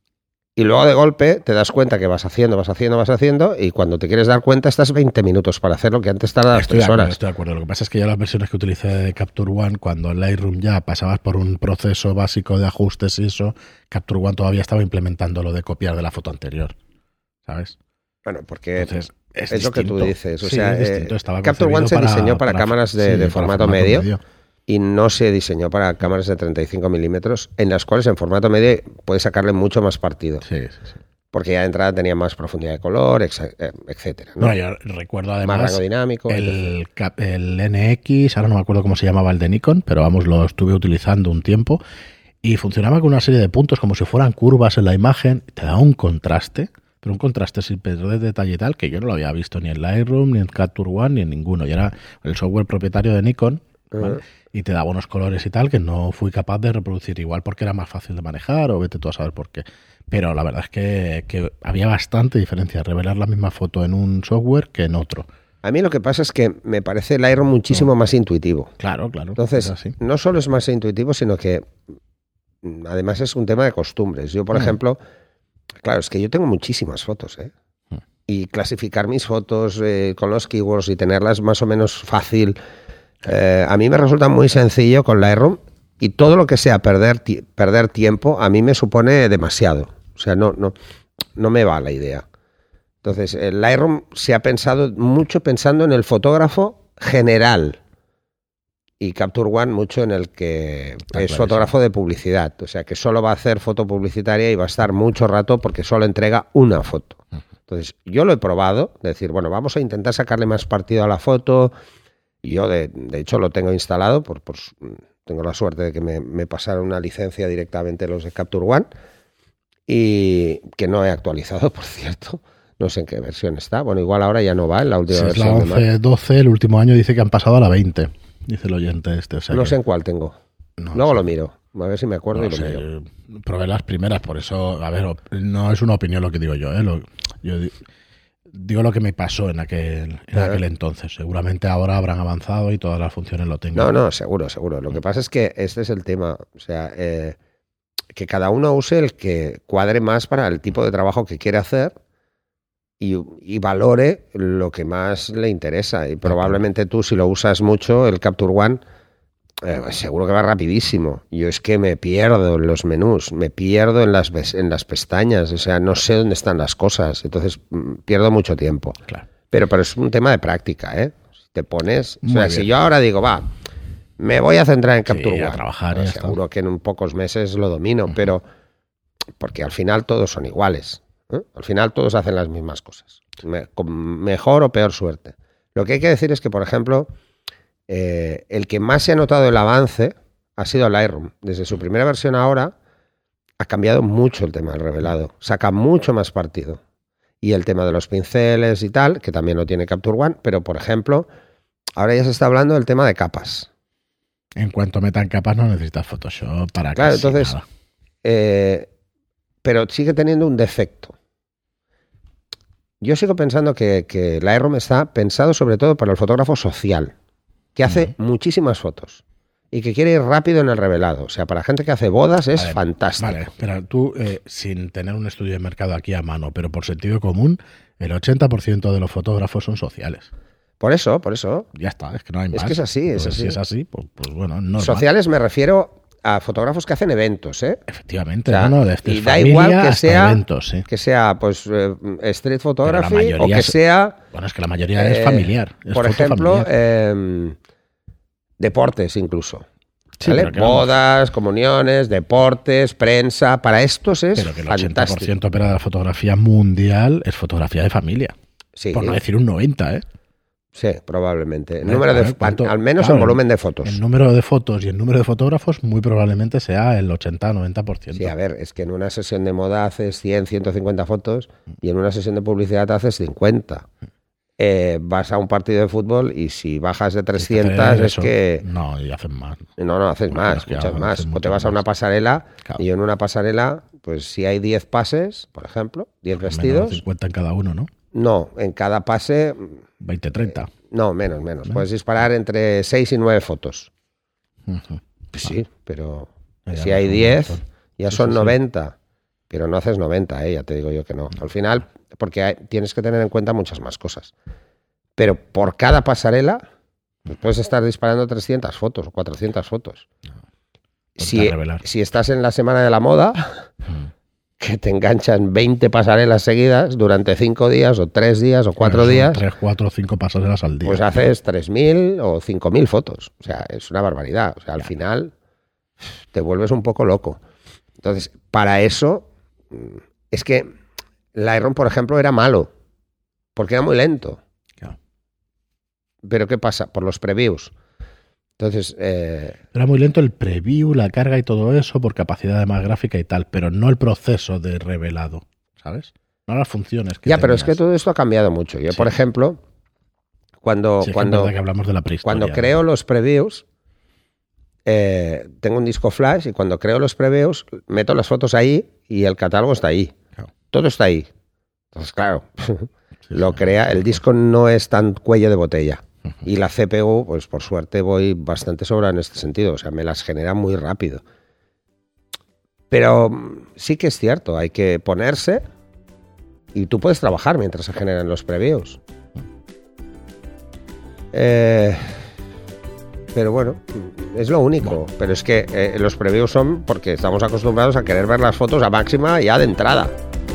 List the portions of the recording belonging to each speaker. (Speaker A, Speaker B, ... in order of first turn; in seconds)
Speaker A: 0.6-7.2, 18.2-19.0, 19.5-24.1, 24.7-30.4, 31.3-34.5, 35.4-36.6, 53.9-54.2, 65.6-68.7, 69.4-71.7, 72.6-75.0, 75.8-77.5, 78.3-82.6, 83.2-90.8, 91.4-92.2, 93.0-97.8, 99.0-111.7, 112.4-118.9, 119.9-125.9, 129.5-130.3, 130.9-132.8, 140.3-140.6, 143.8-147.4, 148.1-151.9, 153.0-158.8, 159.6-169.0, 169.5-173.5, 174.2-178.4, 179.4-187.1, 187.9-192.8, 193.6-196.8, 197.4-201.3, 202.0-203.7, 207.0-207.6, 208.2-208.9, 209.6-211.2, 213.0-217.1, 217.8-223.4, 230.8-231.7, 232.5-233.6, 234.8-237.8, 238.5-244.2, 245.0-247.6, 248.6-249.7, 250.2-255.3, 258.8-259.2, 260.8-264.0, 268.1-273.9, 274.6-278.6, 279.8-287.0, 288.1-289.8, 290.9-293.9, 295.3-299.0, 299.5-304.3, 305.2-306.6, 307.3-310.1, 311.2-313.7, 314.6-319.4, 320.8-325.3, 326.3-327.4, 328.0-330.7, 331.4-332.7, 333.6-334.4, 336.2-337.7, 338.6-339.6, 347.3-349.6, 350.6-351.5, 352.2-353.6, 354.9-360.1, 360.7-361.3, 361.9-371.2, 372.9-375.6, 376.7-379.0, 381.3-382.2, 383.3-390.1
Speaker B: 6.5-16.8, 17.5-17.8, 18.8-24.2, 30.4-30.9, 34.4-41.8, 42.4-65.3, 68.8-70.0, 101.1-101.7, 125.1-129.7, 130.8-131.2, 132.3-137.8, 138.5-144.0, 156.2-156.6, 172.2-172.7, 175.1-176.4, 204.6-207.6, 222.6-230.3, 231.8-235.1, 237.9-240.9, 242.8-243.8, 244.3-246.7, 250.2-250.9, 254.4-258.4, 258.9-260.0, 261.8-268.3, 277.4-279.7, 280.3-281.8, 286.4-287.9, 290.0-290.7, 294.7-295.0, 296.7-298.6, 311.2-311.8, 318.8-321.0, 339.7-347.8, 351.0-352.8, 363.3-363.6